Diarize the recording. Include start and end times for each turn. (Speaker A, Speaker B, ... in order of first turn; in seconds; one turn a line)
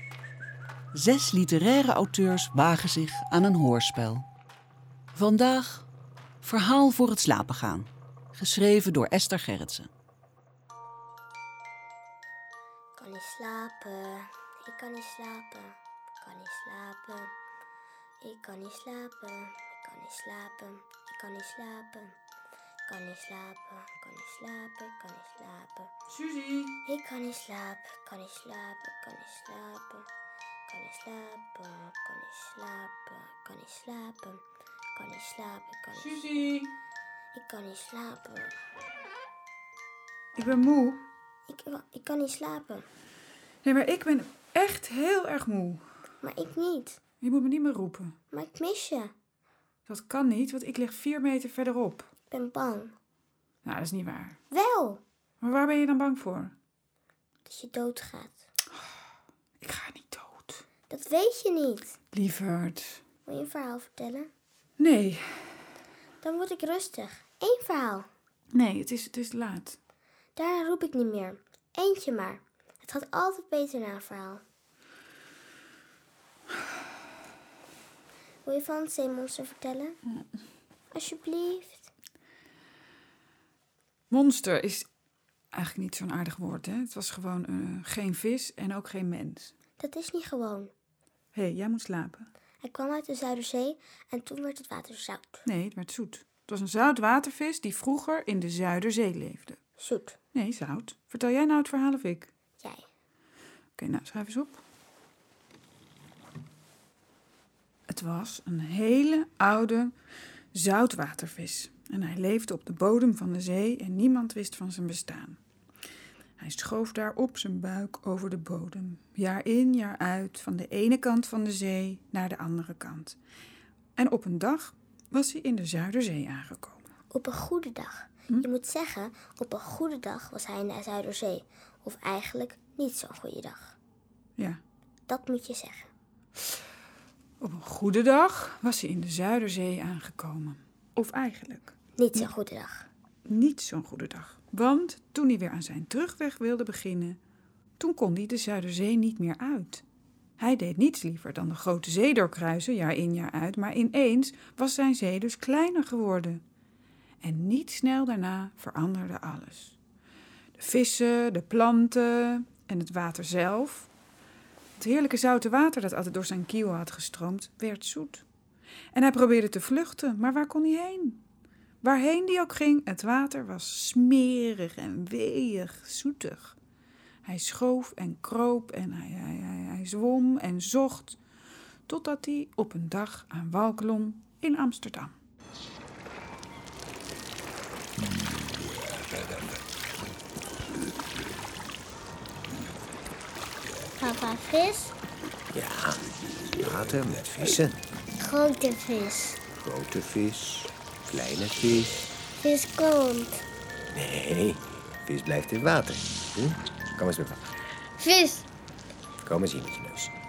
Speaker A: 0.9-4.3
Speaker A: 5.1-5.8
Speaker A: 6.4-9.9
Speaker B: 13.0-17.3
Speaker B: 18.2-22.1
Speaker B: 22.9-25.9
Speaker C: 26.1-26.8
Speaker B: 26.9-30.1
Speaker B: 30.7-34.4
Speaker B: 35.0-36.5
Speaker C: 36.0-36.7
Speaker B: 37.3-38.6
Speaker C: 40.4-41.0
Speaker B: 41.5-42.9
Speaker C: 43.6-45.8
Speaker B: 46.2-47.0
Speaker C: 47.2-48.1
Speaker B: 48.3-49.1
Speaker C: 49.9-52.1
Speaker B: 52.3-52.9
Speaker C: 53.6-54.4
Speaker B: 54.5-55.0
Speaker C: 55.4-56.5
Speaker B: 57.5-58.4
Speaker C: 59.6-60.6
Speaker B: 60.9-62.0
Speaker C: 62.1-63.0
Speaker B: 63.3-64.3
Speaker C: 64.8-65.2
Speaker B: 66.2-68.1
Speaker C: 68.5-69.8
Speaker B: 70.4-74.4
Speaker B: 78.5-80.0
Speaker B: 80.9-81.9
Speaker C: 84.1-84.9
Speaker C: 85.5-89.5
Speaker B: 89.8-90.7
Speaker C: 91.3-92.3
Speaker B: 92.6-95.4
Speaker C: 95.5-99.6
Speaker B: 99.8-100.2
Speaker C: 100.3-102.3
Speaker B: 102.6-102.8
Speaker C: 103.8-104.6
Speaker C: 107.9-109.9
Speaker C: 110.5-115.4
Speaker C: 116.4-123.2
Speaker C: 124.0-126.8
Speaker B: 127.1-133.8
Speaker B: 135.1-135.9
Speaker C: 137.4-142.3
Speaker B: 142.0-142.9
Speaker C: 143.3-147.2
Speaker C: 147.8-149.8
Speaker C: 150.4-156.4
Speaker C: 157.2-159.8
Speaker C: 160.6-163.9
Speaker C: 164.8-168.2
Speaker C: 168.9-171.2
Speaker C: 171.8-176.6
Speaker C: 177.2-181.2
Speaker C: 181.9-185.1
Speaker B: 194.0-194.9
Speaker D: 195.5-197.8
Speaker B: 198.2-199.4
Speaker D: 199.5-202.1
Speaker B: 202.4-203.4
Speaker D: 203.9-207.4
Speaker B: 208.0-208.5
Speaker D: 209.2-210.1